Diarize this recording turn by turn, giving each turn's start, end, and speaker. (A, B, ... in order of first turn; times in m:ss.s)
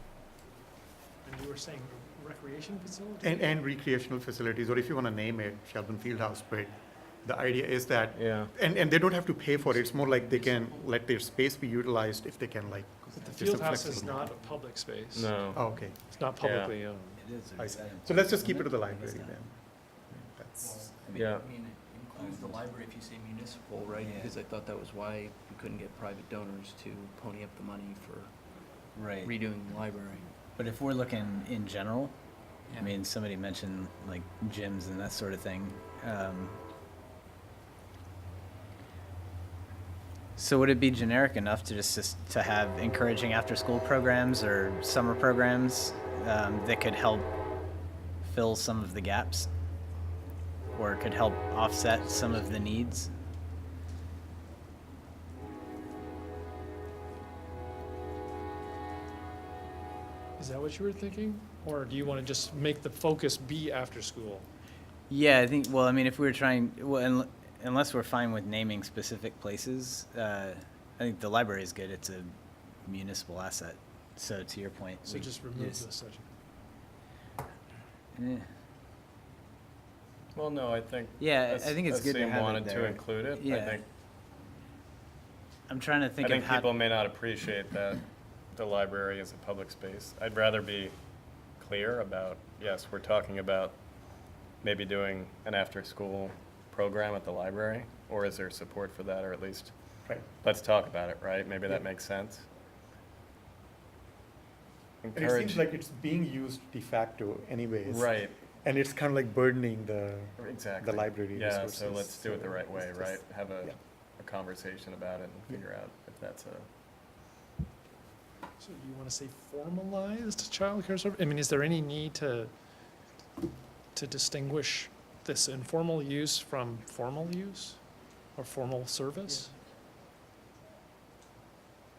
0:01.2-0:03.4 A
0:03.2-0:14.3 B
0:08.2-0:08.5 C
0:10.0-0:10.7 D
0:13.1-0:13.6 D
0:13.2-0:15.4 A
0:15.1-0:15.7 C
0:15.5-0:16.0 B
0:16.0-0:17.2 A
0:16.4-0:16.8 C
0:17.2-0:19.4 E
0:17.6-0:20.9 B
0:20.6-0:28.3 D
0:21.1-0:21.5 C
0:22.2-0:22.6 E
0:24.0-0:24.4 E
0:29.0-0:29.4 E
0:29.2-0:30.2 D
0:30.6-0:32.2 E
0:32.8-0:36.6 E
0:40.4-0:47.3 E
0:48.2-0:49.5 E
0:50.7-0:53.1 E
1:00.4-1:04.5 A
1:05.1-1:12.3 E
1:12.8-1:15.8 E
1:15.0-1:16.3 A
1:18.2-1:18.5 E
1:20.3-1:23.8 C
1:21.2-1:23.8 E
1:25.7-1:26.7 E
1:26.2-1:31.0 C
1:31.6-1:33.8 C
1:34.6-1:39.7 C
1:40.4-1:42.5 C
1:45.0-1:45.6 C
1:45.2-1:53.8 B
1:47.8-1:48.4 C
1:50.4-1:56.7 C
1:58.6-2:02.5 A
2:04.0-2:07.8 A
2:08.4-2:09.5 A